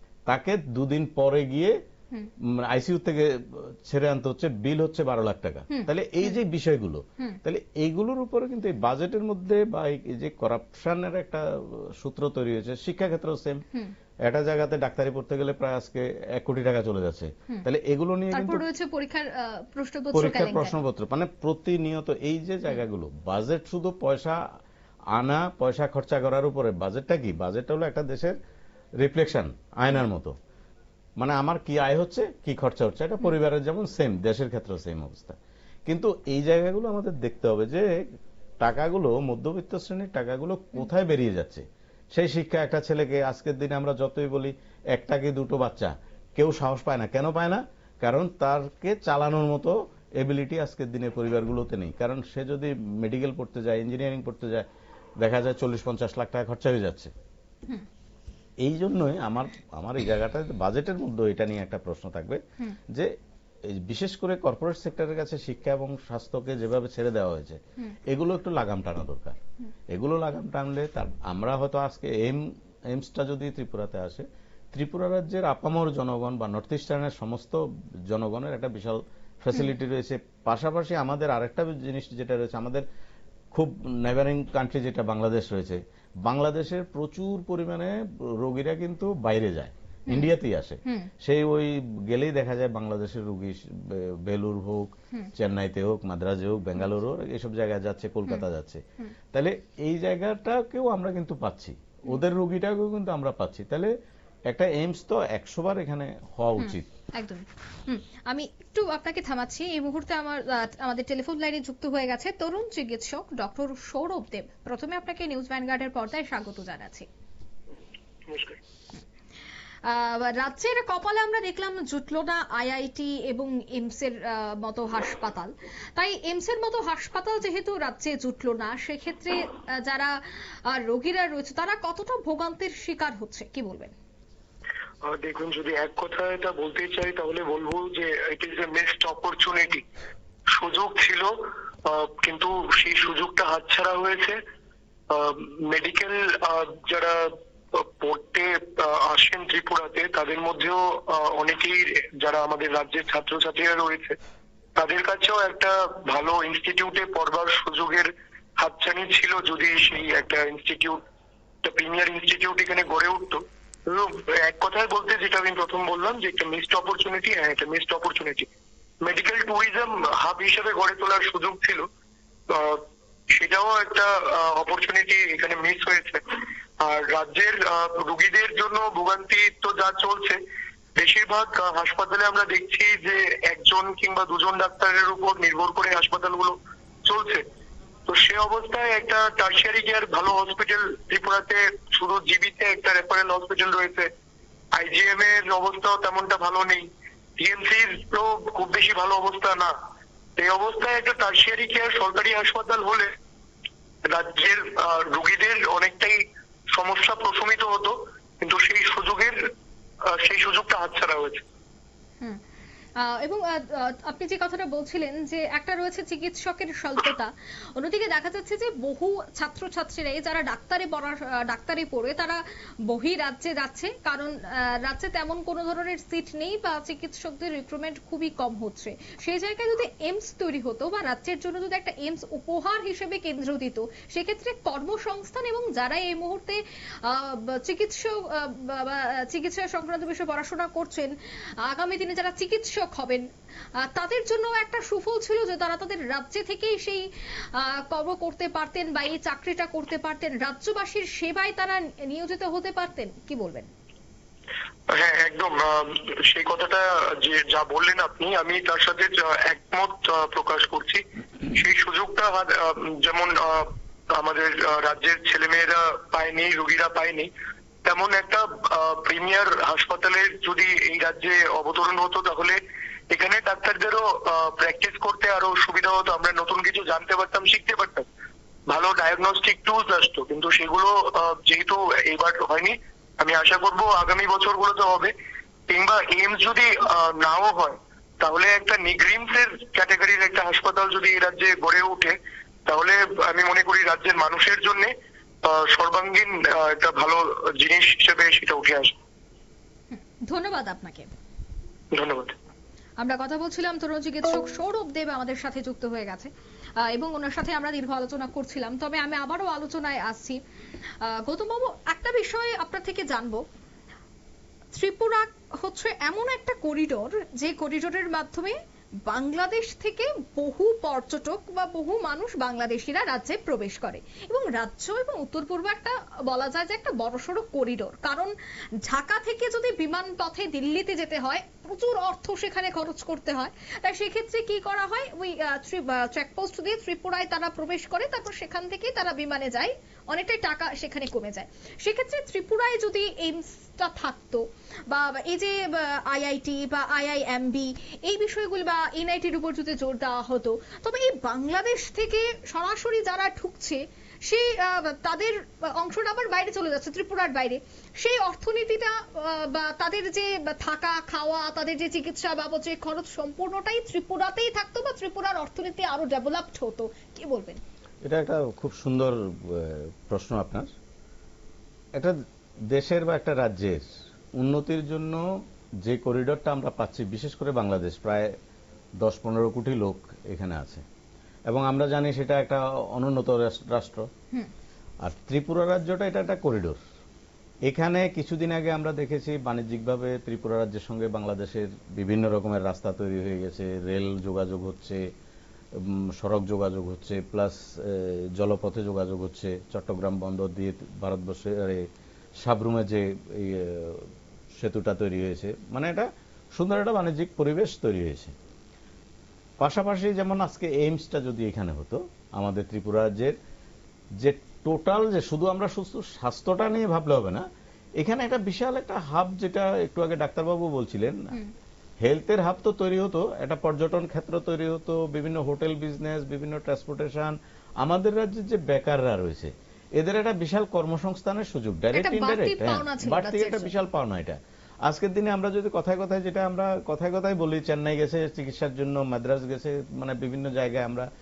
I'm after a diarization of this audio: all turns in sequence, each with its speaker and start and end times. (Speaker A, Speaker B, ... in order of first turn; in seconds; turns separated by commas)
Speaker A: 0.3-1.7, Speaker A: 2.5-13.6, Speaker B: 5.7-6.4, Speaker A: 14.3-18.6, Speaker B: 18.3-20.8, Speaker A: 20.1-24.4, Speaker A: 25.1-28.4, Speaker A: 29.0-30.3, Speaker A: 31.2-38.0, Speaker A: 38.6-54.7, Speaker A: 55.2-57.1, Speaker A: 58.6-63.1, Speaker A: 63.7-69.4, Speaker A: 69.9-82.8, Speaker A: 83.5-98.8, Speaker A: 99.3-103.9, Speaker A: 104.5-106.9, Speaker B: 106.6-117.1, Speaker C: 118.3-118.6, Speaker B: 119.8-133.9, Speaker C: 135.0-139.8, Speaker C: 140.5-144.4, Speaker C: 145.1-154.2, Speaker C: 154.8-161.0, Speaker C: 161.6-168.5, Speaker C: 169.0-171.9, Speaker C: 172.5-180.4, Speaker C: 181.0-187.4, Speaker C: 188.1-194.1, Speaker C: 194.7-199.7, Speaker C: 200.4-203.1, Speaker C: 204.0-209.4, Speaker C: 210.1-211.4, Speaker B: 213.0-243.3, Speaker B: 243.9-253.7, Speaker C: 254.9-267.3, Speaker C: 267.8-278.1, Speaker C: 278.7-285.1, Speaker C: 285.7-294.9, Speaker C: 295.4-298.9, Speaker B: 299.9-301.1, Speaker C: 301.9-302.4, Speaker B: 303.0-310.4, Speaker B: 311.0-313.4, Speaker B: 314.7-318.6, Speaker B: 319.1-328.3, Speaker B: 328.9-367.6, Speaker A: 368.1-370.7, Speaker A: 372.7-375.2, Speaker A: 375.8-378.3, Speaker A: 379.0-380.8, Speaker A: 381.5-384.1, Speaker A: 385.0-386.8, Speaker A: 387.7-395.0, Speaker A: 395.8-401.9, Speaker A: 402.4-408.3, Speaker A: 409.6-413.4, Speaker A: 414.2-417.5, Speaker A: 418.0-421.3, Speaker A: 422.0-441.1, Speaker B: 431.9-433.7